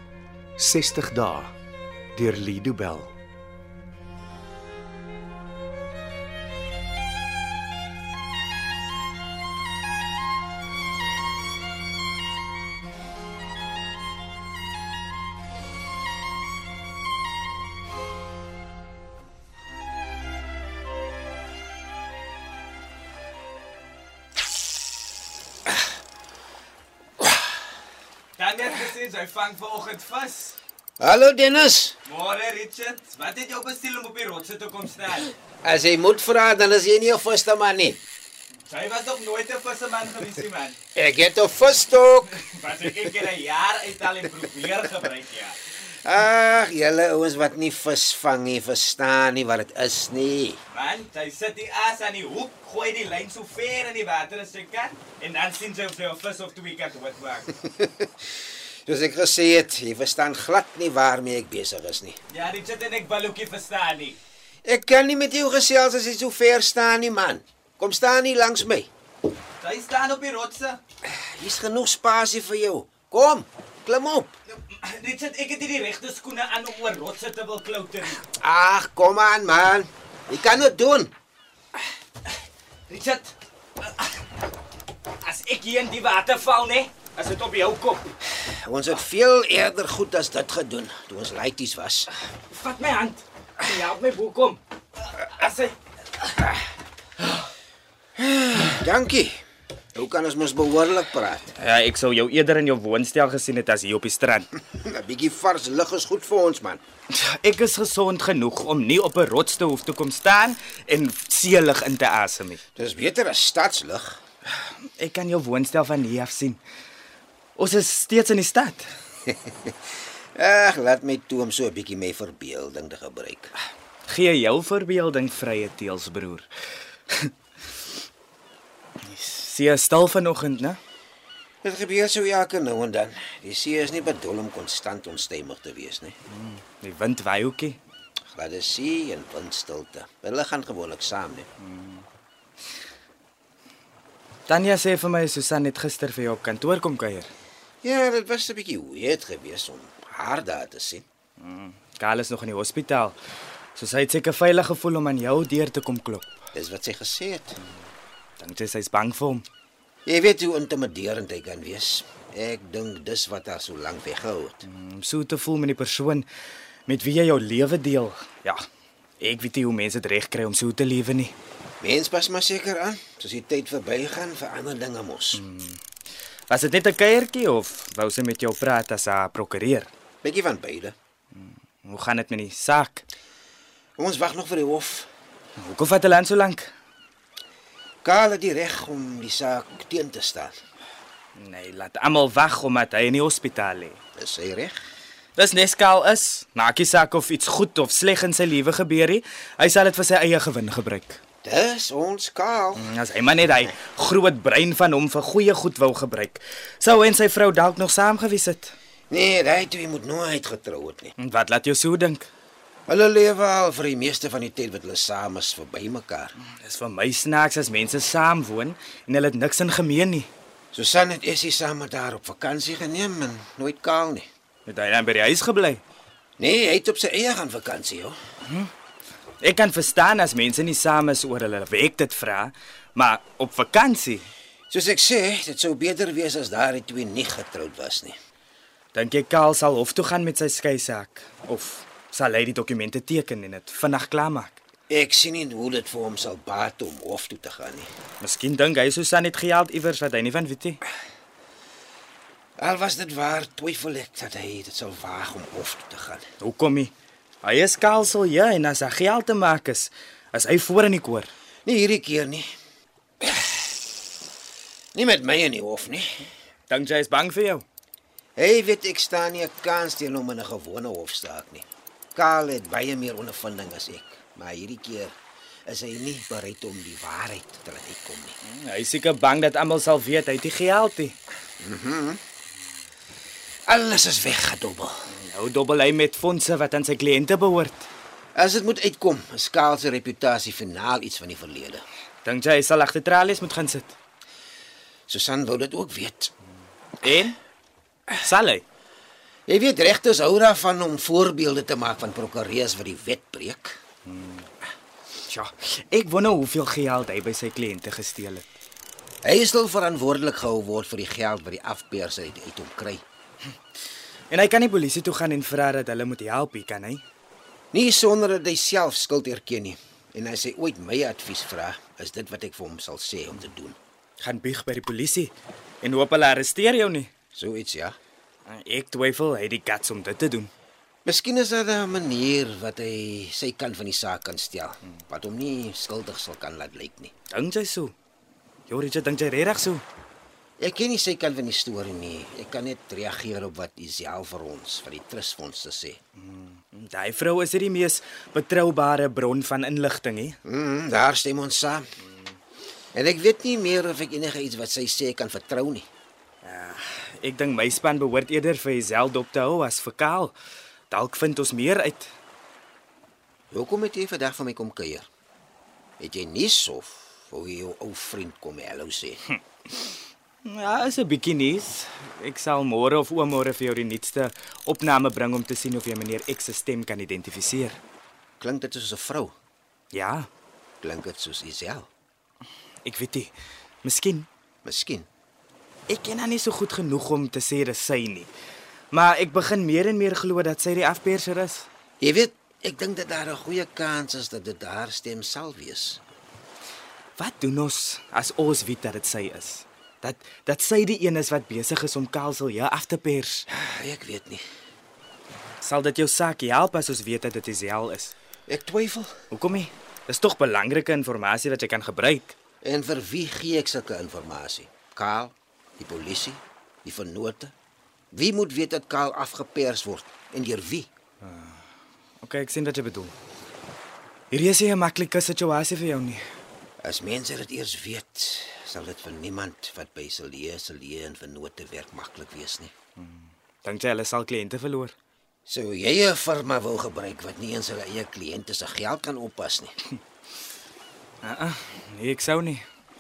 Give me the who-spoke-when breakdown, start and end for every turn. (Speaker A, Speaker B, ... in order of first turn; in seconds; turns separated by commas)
Speaker A: 0.6-1.5, Speaker A: 2.2-3.1, Speaker B: 28.4-30.6, Speaker C: 31.0-32.0, Speaker B: 32.1-35.3, Speaker C: 35.6-38.0, Speaker B: 38.7-40.8, Speaker C: 41.0-42.4, Speaker B: 42.3-45.6, Speaker C: 46.0-50.6, Speaker B: 50.7-57.5, Speaker C: 57.6-58.1, Speaker C: 58.9-62.2, Speaker B: 62.3-64.2, Speaker C: 64.7-68.9, Speaker B: 69.6-70.8, Speaker C: 71.0-74.3, Speaker B: 74.7-78.2, Speaker C: 78.4-81.1, Speaker B: 82.9-84.2, Speaker B: 85.2-88.0, Speaker C: 88.3-92.1, Speaker B: 92.4-95.8, Speaker C: 98.2-99.4, Speaker C: 100.0-101.6, Speaker B: 101.6-104.5, Speaker C: 104.6-106.8, Speaker B: 107.1-112.6, Speaker C: 112.8-114.2, Speaker B: 115.0-116.6, Speaker B: 117.6-118.8, Speaker C: 119.3-119.7, Speaker C: 120.4-123.5, Speaker B: 124.1-126.5, Speaker B: 129.0-130.8, Speaker C: 131.6-136.2, Speaker B: 136.3-137.8, Speaker C: 138.3-141.5, Speaker B: 141.6-142.1, Speaker B: 144.5-147.3, Speaker C: 147.8-151.1, Speaker B: 151.4-153.2, Speaker B: 153.8-156.4, Speaker C: 156.6-157.6, Speaker B: 158.4-159.4, Speaker C: 160.1-164.6, Speaker B: 164.7-166.2, Speaker B: 166.9-168.6, Speaker B: 169.2-171.3, Speaker C: 171.8-175.4, Speaker B: 175.3-175.8, Speaker B: 176.5-179.9, Speaker C: 180.2-180.9, Speaker B: 181.4-183.1, Speaker C: 184.0-185.1, Speaker B: 185.6-186.7, Speaker C: 188.0-190.5, Speaker B: 191.4-194.0, Speaker C: 194.2-194.8, Speaker B: 195.4-201.2, Speaker C: 201.4-202.9, Speaker B: 202.8-208.7, Speaker C: 209.1-211.1, Speaker B: 211.2-212.3, Speaker C: 212.9-216.3, Speaker B: 216.4-220.3, Speaker C: 220.7-224.3, Speaker B: 224.7-225.8, Speaker C: 226.4-228.2, Speaker B: 228.5-228.7, Speaker B: 229.4-234.3, Speaker C: 234.7-238.2, Speaker B: 238.9-244.6, Speaker C: 244.9-247.9, Speaker B: 248.2-250.8, Speaker C: 252.6-256.2, Speaker B: 256.4-261.3, Speaker C: 261.7-262.5, Speaker C: 263.2-263.5, Speaker C: 264.9-266.2, Speaker B: 266.7-267.6, Speaker C: 268.4-275.1, Speaker C: 275.7-278.4, Speaker B: 278.4-281.1, Speaker C: 281.6-282.2, Speaker C: 283.7-285.0, Speaker B: 285.1-287.9, Speaker C: 288.4-291.9, Speaker B: 292.2-293.9, Speaker C: 295.1-296.3, Speaker B: 297.0-297.4, Speaker B: 298.1-298.6, Speaker C: 299.5-303.8, Speaker B: 304.1-304.5, Speaker B: 305.3-308.4, Speaker C: 309.2-313.0, Speaker B: 314.3-317.0, Speaker C: 317.7-323.8, Speaker B: 324.2-327.1, Speaker C: 327.3-328.0, Speaker B: 328.5-330.5, Speaker C: 331.1-337.1, Speaker B: 337.3-337.9, Speaker B: 338.7-339.8, Speaker C: 340.6-346.0, Speaker B: 346.2-350.4, Speaker C: 350.5-351.9, Speaker C: 352.9-355.9, Speaker B: 356.4-360.3, Speaker B: 360.9-362.1, Speaker C: 363.5-365.1, Speaker C: 366.0-369.2, Speaker B: 370.4-377.8, Speaker C: 378.4-379.3, Speaker B: 379.9-380.3, Speaker C: 380.8-381.9, Speaker B: 382.9-383.3, Speaker B: 383.8-384.3, Speaker C: 384.6-385.1, Speaker B: 385.9-388.3, Speaker B: 388.9-391.7, Speaker C: 392.0-396.0, Speaker B: 397.2-403.4, Speaker C: 403.5-404.4, Speaker B: 405.6-408.1, Speaker C: 408.5-409.1, Speaker B: 409.3-412.4, Speaker C: 412.6-417.5, Speaker C: 418.1-420.9, Speaker B: 421.2-421.6, Speaker B: 422.2-423.1, Speaker B: 424.3-426.2, Speaker C: 426.8-432.7, Speaker B: 433.0-434.9, Speaker C: 435.5-439.7, Speaker B: 441.2-442.6